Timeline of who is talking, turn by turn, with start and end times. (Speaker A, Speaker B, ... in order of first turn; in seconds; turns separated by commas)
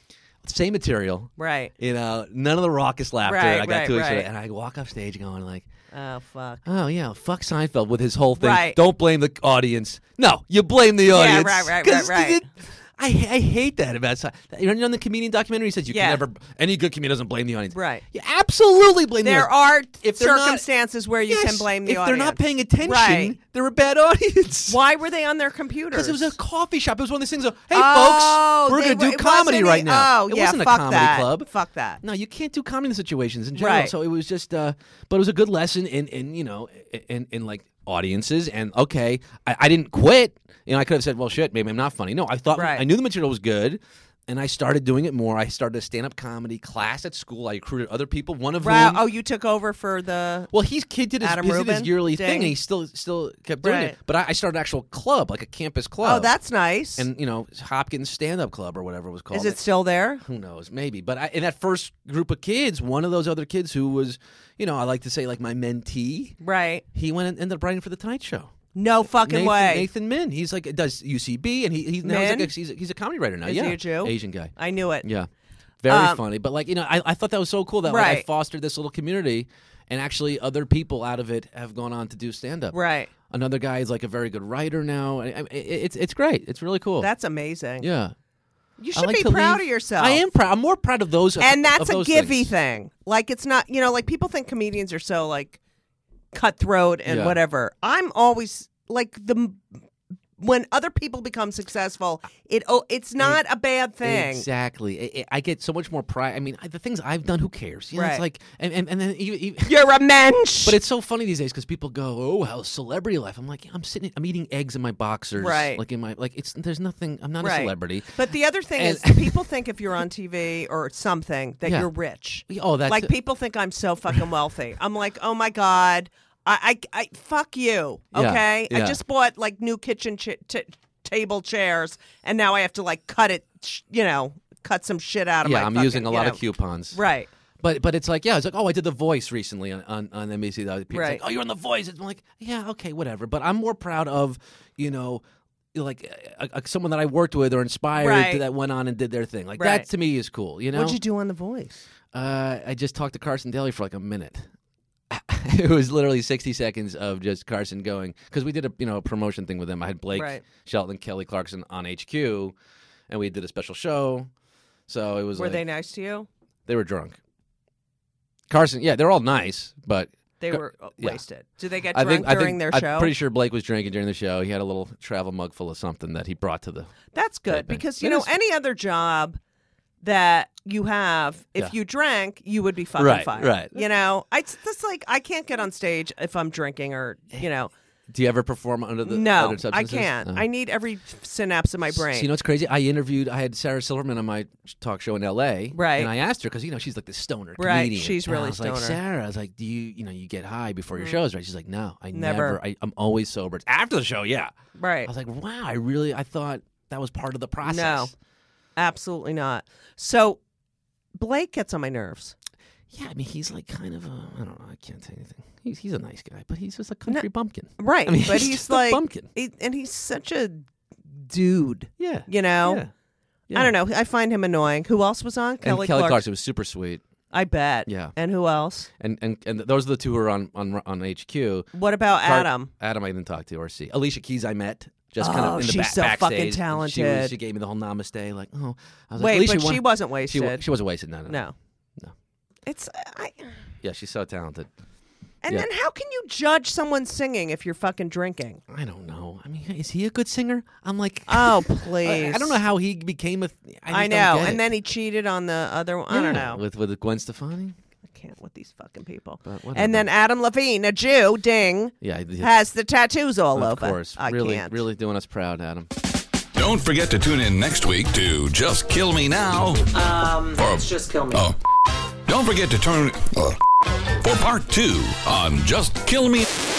Speaker A: 0.4-5.7, Speaker B: 1.4-1.7, Speaker B: 3.2-4.3, Speaker B: 5.9-6.6, Speaker A: 6.6-19.5, Speaker B: 8.4-8.8, Speaker B: 11.1-12.4, Speaker B: 15.9-16.2, Speaker B: 17.7-18.0, Speaker B: 19.2-23.4, Speaker A: 20.0-20.6, Speaker A: 21.3-24.8, Speaker B: 24.7-26.4, Speaker A: 25.9-31.5, Speaker B: 27.7-32.0, Speaker A: 32.0-49.0, Speaker B: 33.5-33.9, Speaker B: 42.5-42.9, Speaker B: 48.6-50.5, Speaker A: 50.5-56.3, Speaker B: 51.2-52.5, Speaker B: 53.6-54.0, Speaker B: 56.0-57.1, Speaker A: 57.0-59.6, Speaker B: 59.3-60.2, Speaker A: 60.2-66.4, Speaker B: 66.4-66.8, Speaker A: 66.9-68.5, Speaker B: 68.7-69.9, Speaker A: 69.1-75.3, Speaker B: 72.0-72.5, Speaker B: 73.4-75.0, Speaker A: 75.8-87.1, Speaker B: 75.9-76.2, Speaker B: 77.8-78.2, Speaker B: 82.7-83.1, Speaker B: 87.0-87.9, Speaker A: 87.8-88.1, Speaker B: 88.8-90.2, Speaker A: 88.9-92.5, Speaker B: 91.4-95.6, Speaker B: 96.3-99.8, Speaker A: 97.0-97.4, Speaker B: 100.4-104.5, Speaker A: 104.0-109.7, Speaker B: 107.9-108.2, Speaker B: 109.6-110.8, Speaker A: 110.6-118.2, Speaker B: 115.4-115.8, Speaker B: 117.4-137.3, Speaker A: 118.7-119.4, Speaker A: 121.6-121.9, Speaker A: 122.5-123.1, Speaker A: 128.1-129.0, Speaker A: 135.4-137.0, Speaker A: 137.6-145.2, Speaker B: 140.9-141.2, Speaker A: 145.7-151.0, Speaker B: 148.0-148.4, Speaker B: 149.6-149.9, Speaker B: 150.7-151.8, Speaker A: 152.1-154.5, Speaker A: 155.1-162.6, Speaker B: 160.1-160.4, Speaker A: 163.1-164.3, Speaker A: 164.9-165.6, Speaker B: 165.3-166.3, Speaker A: 166.7-167.2, Speaker A: 168.5-171.2, Speaker B: 170.4-173.1, Speaker A: 171.9-176.9, Speaker B: 177.1-179.4, Speaker A: 177.5-178.3, Speaker B: 180.0-187.7, Speaker A: 183.0-183.8, Speaker A: 188.1-190.5, Speaker B: 189.0-192.3, Speaker A: 191.9-204.5, Speaker B: 195.7-196.1, Speaker B: 197.6-199.0, Speaker B: 202.1-202.6, Speaker B: 204.8-205.1, Speaker A: 205.0-208.1, Speaker B: 207.6-208.1, Speaker B: 208.8-210.4, Speaker B: 211.1-212.3, Speaker A: 212.9-219.3, Speaker B: 217.8-222.8, Speaker A: 222.0-222.9, Speaker A: 223.5-223.7, Speaker B: 223.5-226.2, Speaker A: 225.6-227.0, Speaker B: 227.3-228.9, Speaker A: 227.8-228.1, Speaker A: 229.0-231.7, Speaker B: 231.7-232.7, Speaker A: 232.2-241.4, Speaker B: 235.2-237.3, Speaker B: 239.2-240.7, Speaker B: 241.3-241.5, Speaker B: 242.7-243.7, Speaker A: 243.8-244.7, Speaker B: 245.4-248.6, Speaker A: 248.7-254.6, Speaker B: 251.3-252.6, Speaker B: 253.9-256.6, Speaker A: 256.1-257.8, Speaker B: 258.1-264.8, Speaker A: 259.4-260.1, Speaker A: 262.0-262.6, Speaker A: 263.5-265.9, Speaker C: 266.5-269.9, Speaker B: 269.9-271.5, Speaker C: 270.6-271.6, Speaker C: 272.2-273.6, Speaker C: 274.2-276.5